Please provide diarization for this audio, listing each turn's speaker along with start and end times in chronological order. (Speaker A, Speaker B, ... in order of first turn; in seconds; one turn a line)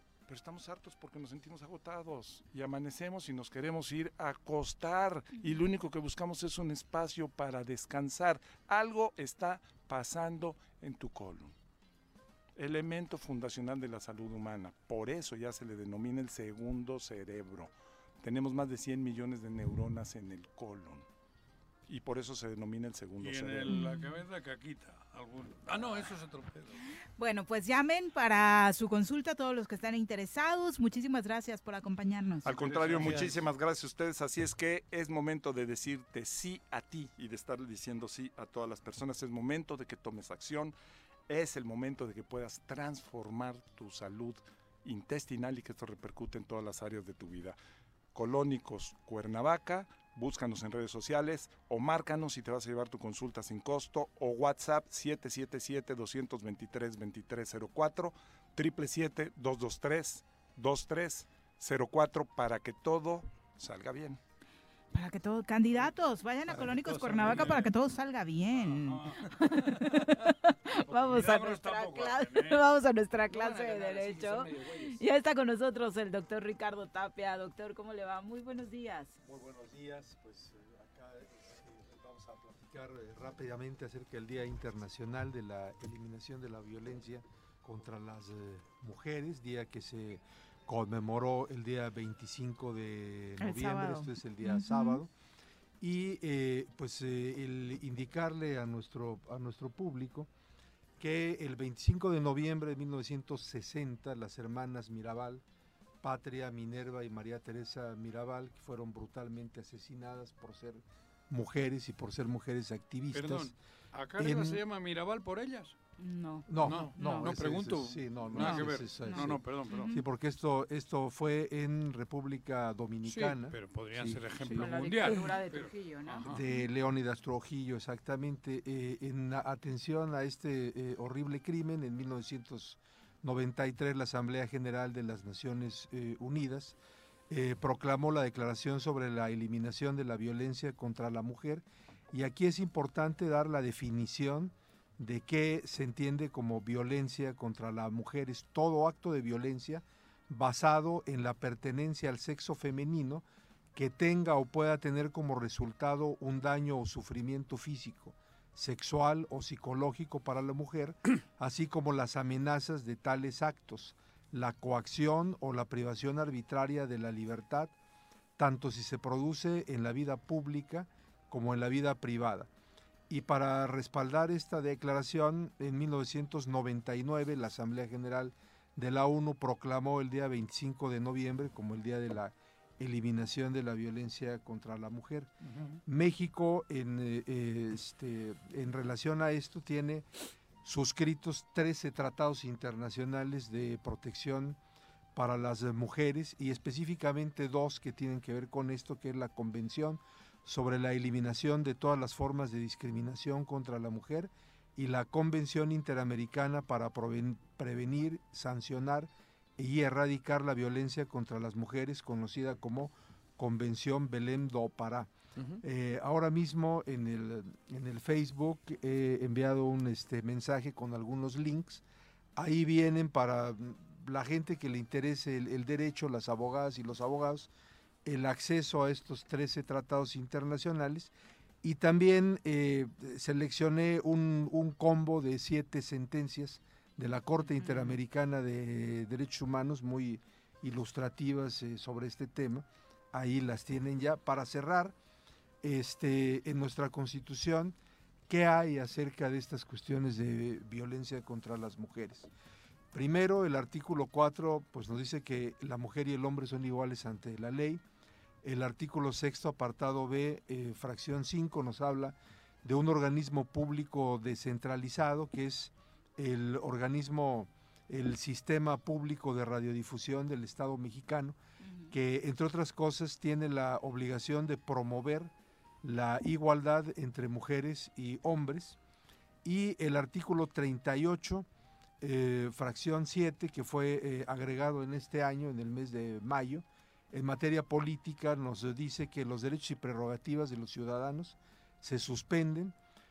Speaker A: 0.3-11.5
Speaker A: 12.6-21.1
Speaker A: 21.9-23.8
Speaker B: 23.2-26.8
Speaker C: 23.7-24.2
Speaker C: 27.2-32.5
Speaker A: 32.4-40.7
Speaker B: 32.5-33.4
Speaker D: 32.8-33.3
Speaker A: 41.3-47.6
Speaker A: 48.1-64.2
Speaker C: 64.9-79.2
Speaker D: 66.5-67.7
Speaker B: 67.2-67.7
Speaker B: 68.5-70.0
Speaker B: 70.9-72.7
Speaker B: 73.5-73.8
Speaker E: 79.2-95.1
Speaker C: 93.4-95.0
Speaker E: 95.8-100.3
Speaker E: 101.0-105.4
Speaker E: 106.0-113.5
Speaker B: 113.1-115.7
Speaker E: 114.2-114.6
Speaker C: 116.0-117.3
Speaker E: 116.5-125.1
Speaker B: 116.6-119.9
Speaker C: 118.3-120.0
Speaker B: 123.0-126.4
Speaker C: 124.5-126.6
Speaker E: 126.2-136.8
Speaker E: 137.3-153.2
Speaker E: 153.7-167.7
Speaker E: 168.4-172.5
Speaker E: 173.1-185.3
Speaker D: 185.4-185.8
Speaker E: 185.8-190.1
Speaker E: 190.6-194.6
Speaker E: 195.1-215.1
Speaker E: 215.6-221.8
Speaker E: 222.3-227.5
Speaker E: 228.0-231.1
Speaker E: 231.6-244.9
Speaker C: 237.6-238.0
Speaker E: 245.6-247.8
Speaker E: 248.3-252.3
Speaker E: 252.9-257.8
Speaker E: 258.4-271.4
Speaker C: 271.6-271.9
Speaker E: 271.9-275.3
Speaker E: 275.8-278.8
Speaker E: 279.4-281.5
Speaker E: 282.0-292.7